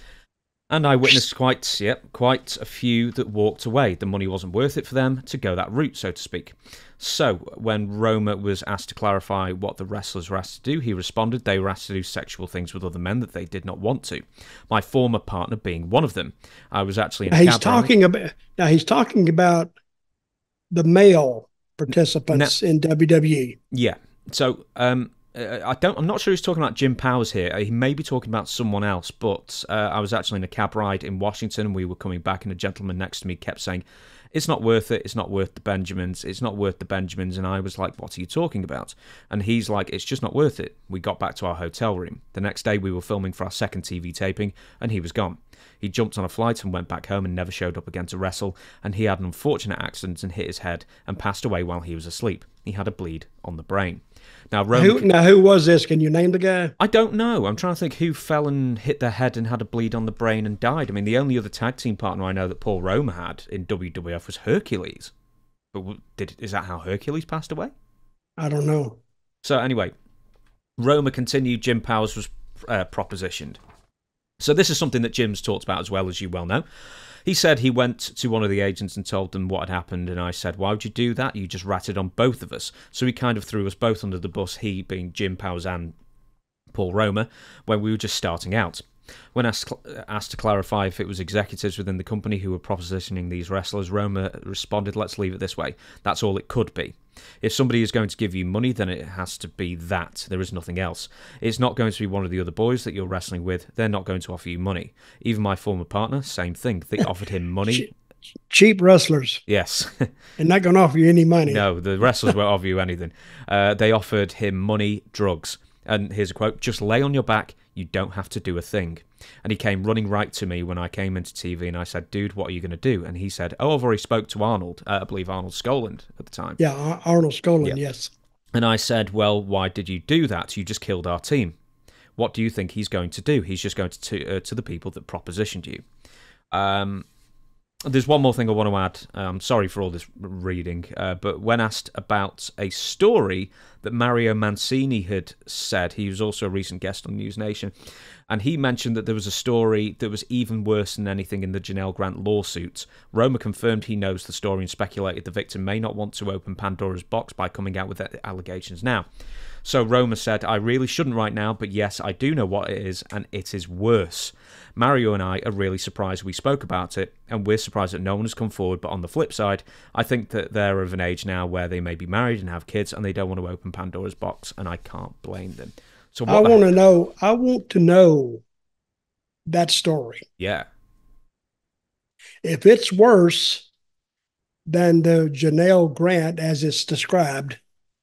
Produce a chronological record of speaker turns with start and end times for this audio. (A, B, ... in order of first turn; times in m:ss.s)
0:00.7-0:17.9 A
0:17.3-0:19.7 B
0:20.7-0:23.6 B
0:22.3-0:22.6 A
0:23.7-0:55.1 A
0:54.7-0:56.7 B
0:56.8-1:05.1 A
1:05.7-1:07.7 A
1:08.4-1:09.0 B
1:09.4-1:09.9 A
1:10.8-1:13.6 A
1:14.4-1:16.6 A
1:17.2-1:25.9 A
1:26.7-1:47.9 A
1:48.5-1:49.4 B
1:49.5-1:50.1 A
1:50.4-1:51.6 B
1:51.4-2:06.6 A
2:06.6-2:08.1 B
2:08.5-2:11.6 A
2:12.2-2:15.8 A
2:16.5-2:17.0 A
2:17.8-2:27.7 A
2:28.3-2:39.1 A
2:39.6-2:56.6 A
2:56.3-2:58.4 B
2:59.5-3:00.2 B
3:00.4-3:00.7 A
3:02.4-3:03.7 B
3:04.6-3:07.6 B